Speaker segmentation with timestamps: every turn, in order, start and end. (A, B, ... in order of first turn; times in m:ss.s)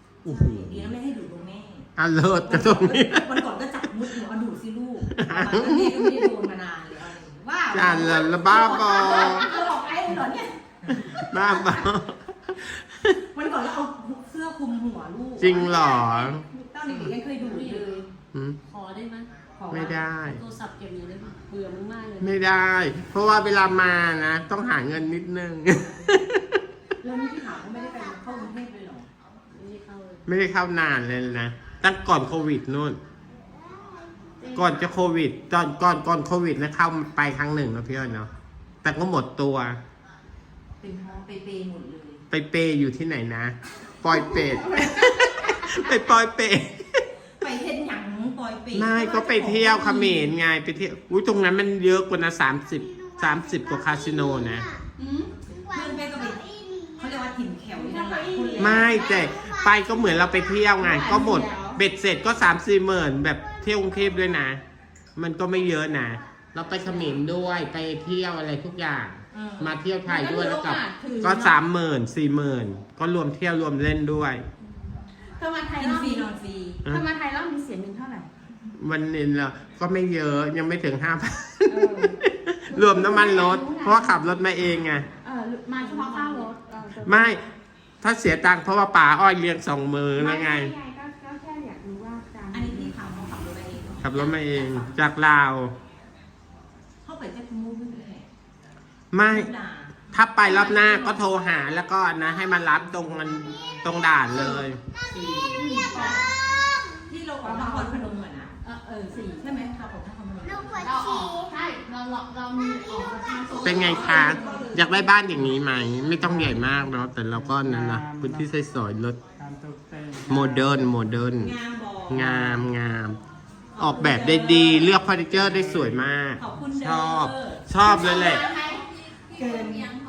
0:00.2-0:00.9 A
0:00.2-0:01.9 B
0:02.0-0:03.4 A
0:02.4-0:11.9 B
0:05.1-0:06.3 A
0:07.7-0:09.5 A
0:08.8-0:09.6 C
0:10.9-0:13.2 A
0:13.3-0:18.0 B
0:15.4-0:17.1 A
0:17.4-0:18.0 D
0:18.3-0:18.6 A
0:18.7-0:19.3 D
0:19.6-0:20.0 B
0:19.7-0:20.4 A
0:20.2-0:22.4 D
0:22.2-0:26.4 A
0:27.0-0:29.1 B
0:29.5-0:30.2 D
0:30.2-0:33.0 A
0:34.4-0:34.8 C
0:34.5-0:38.3 A
0:38.8-0:39.8 A
0:40.8-0:42.2 B
0:42.3-0:47.0 A
0:47.4-0:50.3 B
0:48.7-0:54.7 A
0:55.0-0:55.3 C
0:55.5-0:59.0 B
0:57.7-0:59.3 C
0:58.6-1:04.6 A
1:00.8-1:01.8 C
1:05.2-1:14.4 A
1:09.3-1:09.7 B
1:10.0-1:11.6 C
1:15.3-1:16.3 C
1:15.8-1:16.8 B
1:16.8-1:18.3 C
1:18.8-1:25.1 A
1:21.7-1:22.1 C
1:22.7-1:24.2 C
1:25.2-1:27.3 C
1:25.8-1:26.5 B
1:27.0-1:27.4 A
1:28.0-1:30.7 A
1:30.2-1:33.0 C
1:32.5-1:35.1 B
1:34.0-1:35.7 A
1:37.0-1:38.3 B
1:39.1-1:39.5 A
1:39.2-1:41.2 B
1:40.1-1:44.8 A
1:44.3-1:46.3 B
1:45.5-1:46.2 C
1:47.1-1:48.5 B
1:47.4-1:49.5 C
1:49.3-1:50.9 B
1:50.8-1:54.6 C
1:53.5-1:55.4 B
1:53.6-1:59.2 A
1:56.2-1:58.5 E
1:59.4-2:00.8 E
2:00.3-2:01.6 A
2:01.4-2:02.6 B
2:02.1-2:03.2 A
2:03.8-2:05.0 B
2:03.8-2:08.5 A
2:05.2-2:06.0 E
2:06.4-2:07.7 B
2:07.8-2:09.7 C
2:09.2-2:09.9 B